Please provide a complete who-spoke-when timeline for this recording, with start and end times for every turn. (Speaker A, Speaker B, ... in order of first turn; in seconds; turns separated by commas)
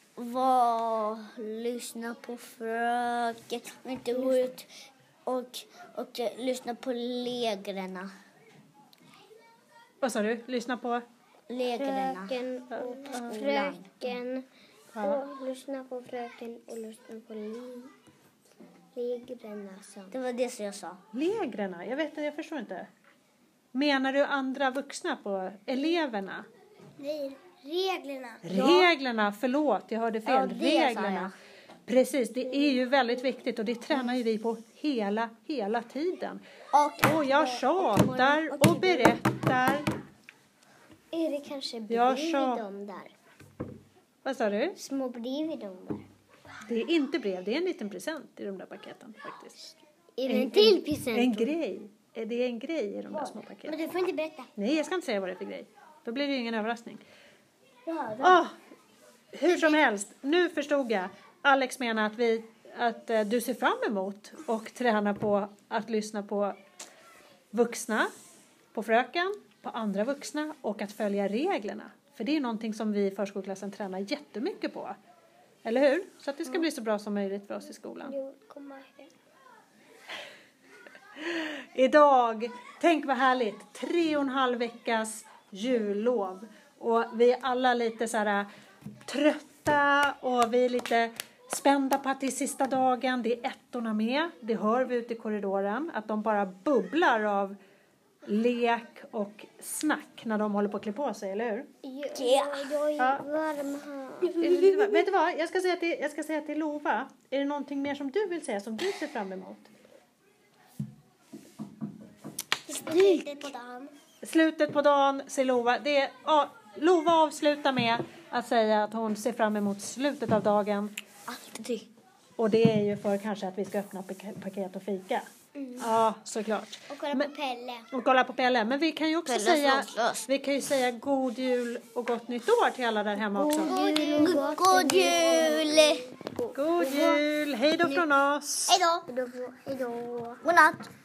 Speaker A: 0.2-4.7, Speaker B: 4.1-4.5, Speaker A: 5.3-8.1, Speaker C: 10.0-11.0, Speaker A: 11.5-12.4, Speaker B: 11.8-14.4, Speaker C: 12.7-13.4, Speaker A: 13.1-13.9, Speaker C: 14.9-15.2, Speaker B: 15.0-17.9, Speaker B: 18.9-20.2, Speaker A: 20.1-21.0, Speaker C: 21.1-22.9, Speaker C: 23.7-26.5, Speaker B: 27.0-28.9, Speaker C: 28.4-31.3, Speaker A: 30.2-31.3, Speaker C: 31.9-36.4, Speaker A: 36.7-39.1, Speaker C: 37.0-39.9, Speaker B: 41.1-43.1, Speaker C: 41.9-42.6, Speaker C: 44.2-44.8, Speaker B: 44.8-46.1, Speaker C: 46.7-53.8, Speaker B: 50.2-51.5, Speaker B: 53.1-54.5, Speaker C: 54.6-57.0, Speaker A: 57.9-58.4, Speaker C: 58.2-58.5, Speaker C: 59.3-66.6, Speaker C: 67.5-68.1, Speaker C: 68.7-75.0, Speaker C: 75.6-78.2, Speaker B: 78.0-79.1, Speaker C: 81.2-88.5, Speaker C: 89.1-97.6, Speaker C: 98.2-101.7, Speaker B: 101.8-104.4, Speaker A: 102.1-102.8, Speaker C: 103.0-103.2, Speaker A: 104.2-105.0, Speaker C: 104.4-109.7, Speaker A: 112.7-113.5, Speaker B: 112.7-113.9, Speaker C: 114.2-120.9, Speaker A: 121.3-121.9, Speaker C: 122.4-125.3, Speaker B: 125.5-125.9, Speaker C: 125.8-127.3, Speaker B: 126.9-127.9, Speaker C: 127.9-133.7, Speaker A: 129.3-130.3, Speaker A: 133.3-136.0, Speaker B: 133.5-137.2, Speaker C: 136.5-138.8, Speaker A: 138.7-139.0, Speaker B: 139.1-140.4, Speaker A: 140.4-140.9